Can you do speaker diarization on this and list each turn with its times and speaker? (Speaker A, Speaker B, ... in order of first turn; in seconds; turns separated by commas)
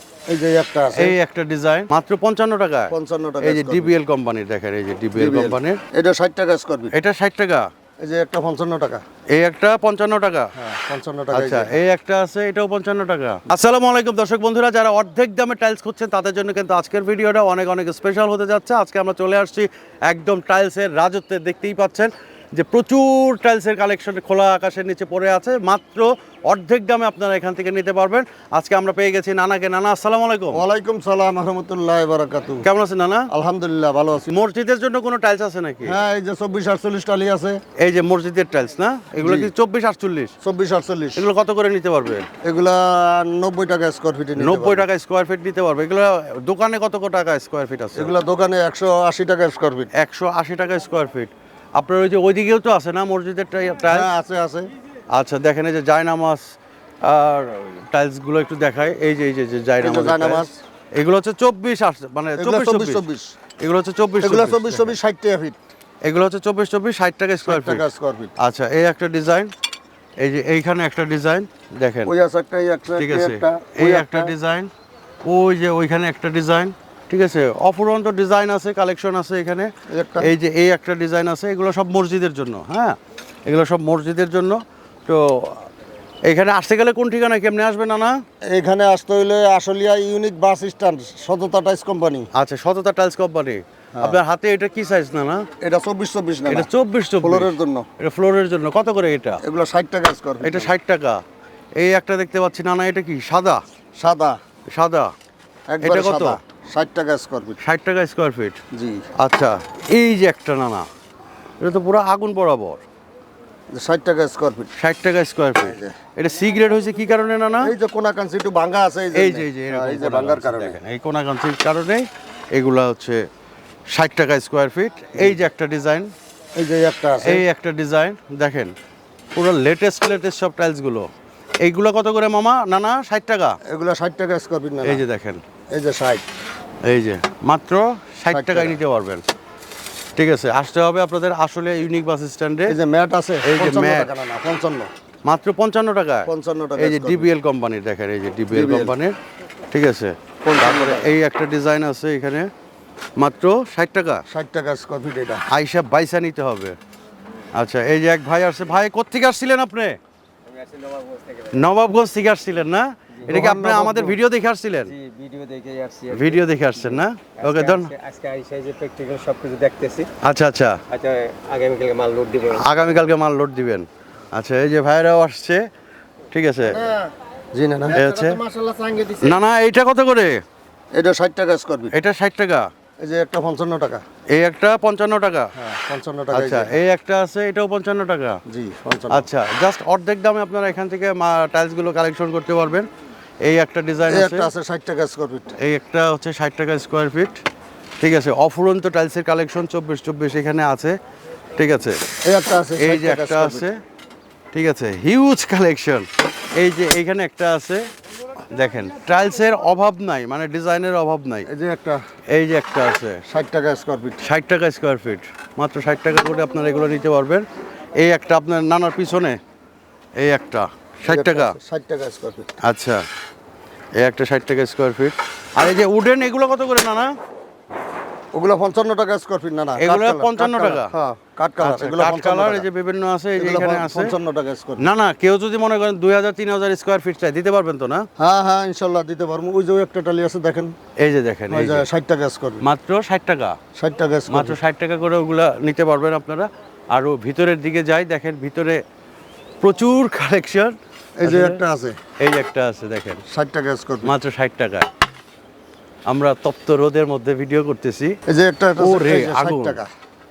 Speaker A: 0.3-1.1, Speaker B: 1.0-5.8, Speaker A: 2.9-3.9, Speaker A: 5.2-6.9, Speaker B: 6.9-7.7, Speaker A: 8.0-9.0, Speaker B: 9.3-10.5, Speaker A: 10.6-11.8, Speaker B: 11.3-30.6, Speaker A: 30.5-32.7, Speaker B: 32.6-33.3, Speaker A: 33.3-34.3, Speaker B: 34.3-36.0, Speaker A: 35.8-37.6, Speaker B: 37.8-40.3, Speaker A: 39.2-39.5, Speaker A: 40.4-41.2, Speaker B: 41.2-42.3, Speaker A: 42.4-44.9, Speaker B: 44.4-48.1, Speaker A: 48.0-49.9, Speaker B: 50.0-54.1, Speaker A: 53.9-54.7, Speaker B: 55.1-56.4, Speaker B: 57.0-63.0, Speaker A: 59.8-60.5, Speaker A: 62.4-63.3, Speaker B: 63.6-65.0, Speaker A: 64.2-65.6, Speaker B: 66.0-67.8, Speaker A: 67.5-68.3, Speaker B: 68.4-69.5, Speaker B: 70.2-72.1, Speaker A: 72.0-74.3, Speaker B: 73.0-74.7, Speaker B: 75.2-85.7, Speaker A: 79.9-80.3, Speaker B: 86.3-88.2, Speaker A: 88.5-92.3, Speaker B: 92.3-95.5, Speaker A: 95.6-96.7, Speaker B: 96.5-99.4, Speaker A: 97.2-97.8, Speaker A: 99.4-100.7, Speaker B: 100.4-101.2, Speaker B: 101.8-103.6, Speaker A: 104.0-104.4, Speaker B: 104.7-105.1, Speaker A: 105.7-107.6, Speaker B: 105.8-106.4, Speaker B: 107.6-108.6, Speaker A: 108.7-109.0, Speaker B: 109.2-110.9, Speaker B: 111.6-112.8, Speaker A: 113.7-114.7, Speaker B: 114.8-117.7, Speaker A: 115.6-116.0, Speaker A: 117.6-120.8, Speaker B: 119.1-123.2, Speaker B: 123.9-126.1, Speaker A: 126.6-127.4, Speaker B: 127.2-128.7, Speaker B: 129.3-131.1, Speaker B: 131.6-133.6, Speaker A: 133.7-135.0, Speaker B: 134.8-135.4, Speaker A: 135.7-136.2, Speaker B: 136.8-139.2, Speaker A: 138.3-138.8, Speaker B: 140.2-142.8, Speaker A: 142.7-144.9, Speaker B: 143.4-144.1, Speaker B: 145.2-149.2, Speaker A: 146.2-147.3, Speaker A: 148.5-148.9, Speaker B: 149.7-152.5, Speaker A: 150.4-151.1, Speaker B: 153.2-154.2, Speaker A: 154.3-155.4, Speaker B: 155.5-156.8, Speaker B: 157.5-160.0, Speaker C: 160.5-161.6, Speaker B: 161.5-164.9, Speaker A: 163.3-164.2, Speaker C: 164.9-170.1, Speaker B: 166.1-167.9, Speaker B: 170.2-170.8, Speaker C: 170.9-172.7, Speaker B: 172.5-175.7, Speaker B: 176.3-176.9, Speaker A: 177.5-178.1, Speaker B: 177.9-178.4, Speaker C: 178.0-179.4, Speaker B: 179.2-180.4, Speaker A: 180.9-182.0, Speaker B: 181.9-182.7, Speaker A: 183.0-184.0, Speaker B: 184.3-185.5, Speaker A: 185.6-186.8, Speaker B: 186.3-188.4, Speaker A: 188.5-189.3, Speaker B: 189.1-192.9, Speaker B: 193.4-194.5, Speaker A: 194.1-195.6, Speaker B: 195.6-197.4, Speaker B: 198.0-201.0, Speaker B: 201.6-202.0, Speaker A: 202.2-203.7, Speaker B: 202.8-203.8, Speaker B: 204.5-207.9, Speaker B: 208.5-211.5, Speaker A: 211.5-212.0, Speaker B: 212.3-213.2, Speaker A: 213.3-214.2, Speaker B: 214.2-217.4, Speaker B: 218.0-219.4, Speaker B: 220.2-221.6, Speaker A: 221.1-222.6, Speaker B: 222.6-223.0, Speaker B: 224.0-227.1, Speaker A: 228.3-232.7, Speaker B: 229.8-230.9, Speaker B: 231.6-234.1, Speaker A: 233.4-234.9, Speaker B: 234.8-238.1, Speaker A: 238.2-240.8, Speaker B: 241.0-241.9, Speaker A: 241.5-242.7, Speaker B: 242.6-243.6, Speaker A: 243.8-244.6, Speaker B: 244.3-248.8, Speaker B: 249.6-251.6, Speaker A: 251.2-252.0, Speaker B: 252.2-253.2, Speaker A: 253.3-254.1, Speaker B: 254.1-254.9, Speaker B: 256.1-258.1, Speaker A: 258.3-259.9, Speaker B: 258.8-259.8